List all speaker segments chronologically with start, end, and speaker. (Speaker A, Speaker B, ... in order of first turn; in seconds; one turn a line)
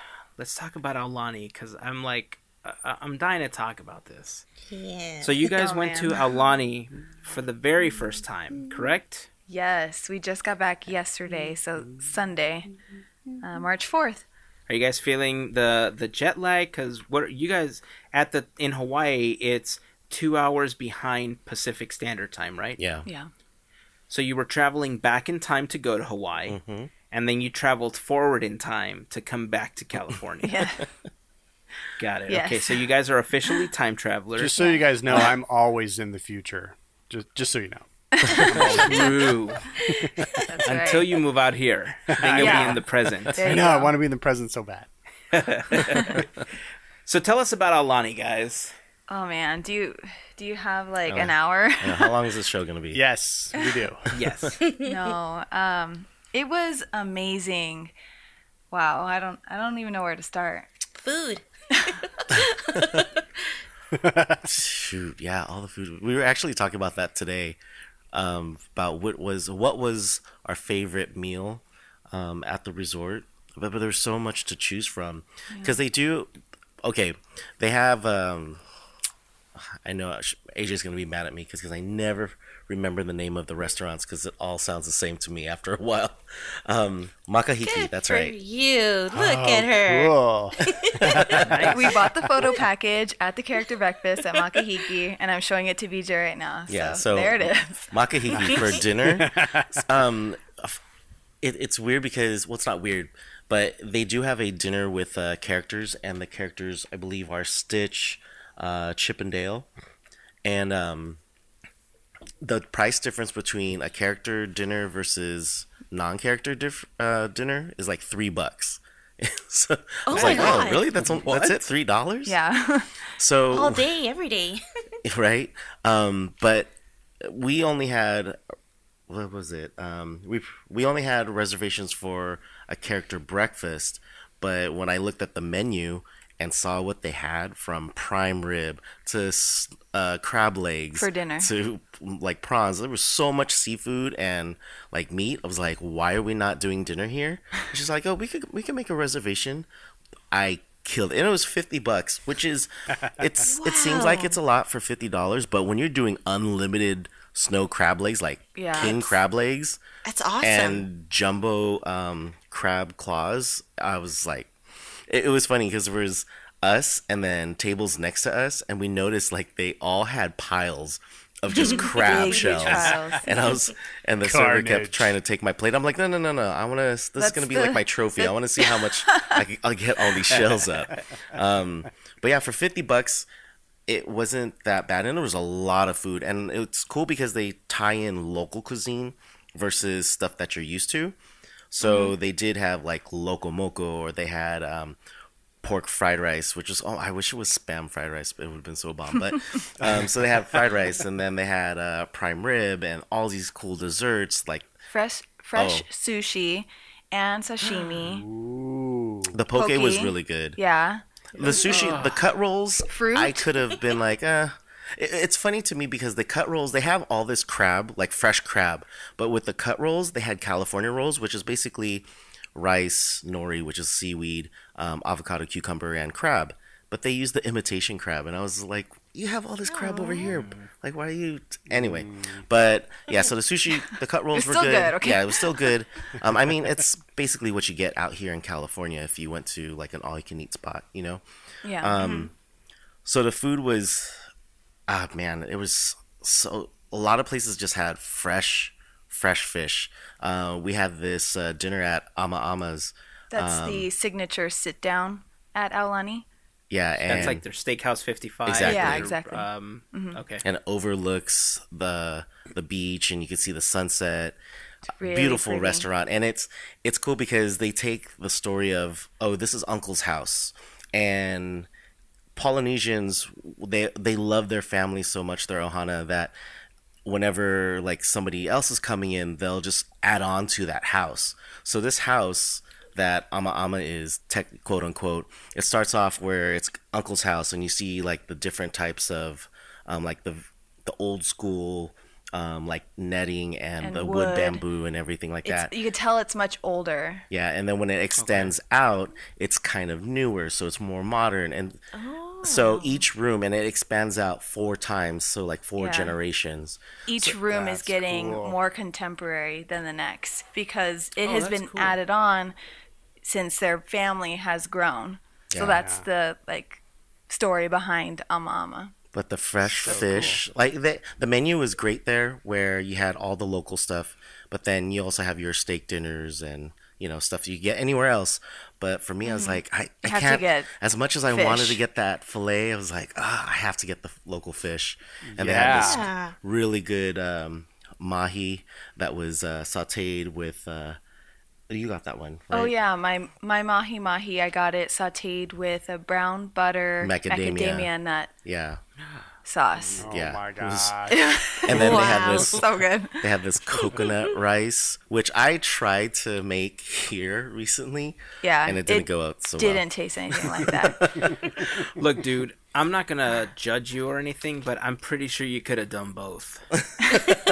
Speaker A: 0.4-4.5
Speaker B: 4.7-5.5
Speaker A: 5.2-9.3
Speaker C: 5.5-6.2
Speaker C: 9.5-12.7
Speaker C: 13.4-14.3
Speaker A: 14.7-22.8
Speaker D: 22.8-23.1
Speaker A: 24.1-26.6
Speaker D: 26.5-26.9
Speaker A: 27.1-30.7
Speaker C: 30.4-30.8
Speaker A: 32.0-34.6
Speaker C: 32.3-32.8
Speaker E: 34.4-39.3
Speaker C: 38.1-39.1
Speaker A: 38.4-39.7
Speaker E: 39.9-40.4
Speaker C: 40.4-41.2
Speaker A: 40.6-43.6
Speaker E: 42.1-44.9
Speaker C: 42.4-42.8
Speaker C: 43.4-44.0
Speaker A: 45.3-46.2
Speaker A: 47.1-48.7
Speaker C: 49.1-52.1
Speaker D: 51.1-53.0
Speaker E: 52.9-54.2
Speaker A: 54.1-54.6
Speaker B: 54.6-54.9
Speaker C: 54.8-57.9
Speaker C: 58.7-60.7
Speaker B: 61.0-63.2
Speaker E: 63.9-64.5
Speaker D: 64.5-67.6
Speaker D: 68.1-76.3
Speaker C: 75.5-75.8
Speaker D: 76.8-78.6
Speaker D: 79.6-88.3
Speaker B: 87.6-91.5
Speaker E: 89.1-92.0
Speaker D: 90.8-91.7
Speaker A: 91.5-91.8
Speaker C: 91.7-97.9
Speaker B: 94.3-94.7
Speaker D: 96.7-100.8
Speaker B: 98.4-98.8
Speaker E: 99.1-99.8
Speaker D: 101.4-109.7
Speaker D: 110.4-111.2
Speaker D: 112.4-122.4
Speaker C: 120.1-120.8
Speaker A: 120.1-121.6
Speaker E: 120.2-120.5
Speaker B: 120.2-120.8
Speaker C: 122.3-123.1
Speaker D: 123.2-123.9
Speaker B: 123.5-124.6
Speaker D: 125.0-128.4
Speaker D: 129.1-149.7
Speaker C: 140.9-141.5
Speaker D: 150.3-159.8
Speaker B: 153.4-154.4
Speaker C: 158.6-159.2
Speaker B: 160.0-160.8
Speaker D: 160.4-164.5
Speaker D: 165.1-183.3
Speaker B: 171.6-171.9
Speaker C: 171.6-173.6
Speaker E: 174.2-175.1
Speaker C: 177.2-179.4
Speaker D: 183.9-191.2
Speaker D: 191.7-195.0
Speaker B: 191.8-192.1
Speaker D: 195.6-204.7
Speaker E: 199.8-200.5
Speaker C: 204.9-208.3
Speaker D: 205.6-205.9
Speaker E: 208.0-209.4
Speaker D: 209.3-210.6
Speaker C: 209.5-211.0
Speaker D: 211.3-241.2
Speaker A: 211.4-212.2
Speaker C: 212.9-213.5
Speaker B: 229.7-230.4
Speaker A: 230.3-230.7
Speaker E: 231.7-232.4
Speaker C: 234.3-235.7
Speaker C: 241.6-242.0
Speaker D: 241.8-242.3
Speaker B: 242.0-242.3
Speaker D: 243.1-244.2
Speaker D: 244.9-253.9
Speaker C: 253.3-256.3
Speaker D: 256.7-257.4
Speaker A: 257.1-260.4
Speaker D: 258.5-259.1
Speaker C: 258.6-260.2
Speaker D: 260.4-264.4
Speaker C: 265.0-265.9
Speaker D: 265.0-271.7
Speaker D: 272.4-276.3
Speaker D: 277.1-295.7
Speaker C: 293.8-294.6
Speaker C: 295.4-297.3
Speaker D: 297.3-301.8
Speaker A: 298.2-298.5
Speaker B: 301.9-303.0
Speaker D: 302.4-306.8
Speaker C: 305.8-306.1
Speaker C: 307.1-312.6
Speaker E: 307.2-308.6
Speaker A: 311.2-312.0
Speaker C: 313.2-318.9
Speaker D: 315.5-315.8
Speaker E: 315.7-316.1
Speaker D: 319.1-341.0
Speaker A: 319.7-320.4
Speaker B: 329.2-329.6
Speaker C: 330.0-330.7
Speaker C: 331.3-331.8
Speaker E: 335.3-336.1
Speaker B: 335.7-336.4
Speaker D: 341.7-342.7
Speaker C: 342.5-348.3
Speaker D: 347.0-347.9
Speaker D: 348.4-348.8
Speaker A: 349.0-349.3
Speaker C: 349.4-350.0
Speaker E: 350.0-351.2
Speaker D: 350.0-351.0
Speaker C: 351.1-353.3
Speaker D: 351.6-352.7
Speaker B: 351.7-352.7
Speaker E: 351.8-352.3
Speaker D: 353.2-359.9
Speaker B: 353.7-354.4
Speaker C: 358.4-361.3
Speaker D: 360.5-361.3
Speaker A: 361.9-366.7
Speaker C: 367.0-367.3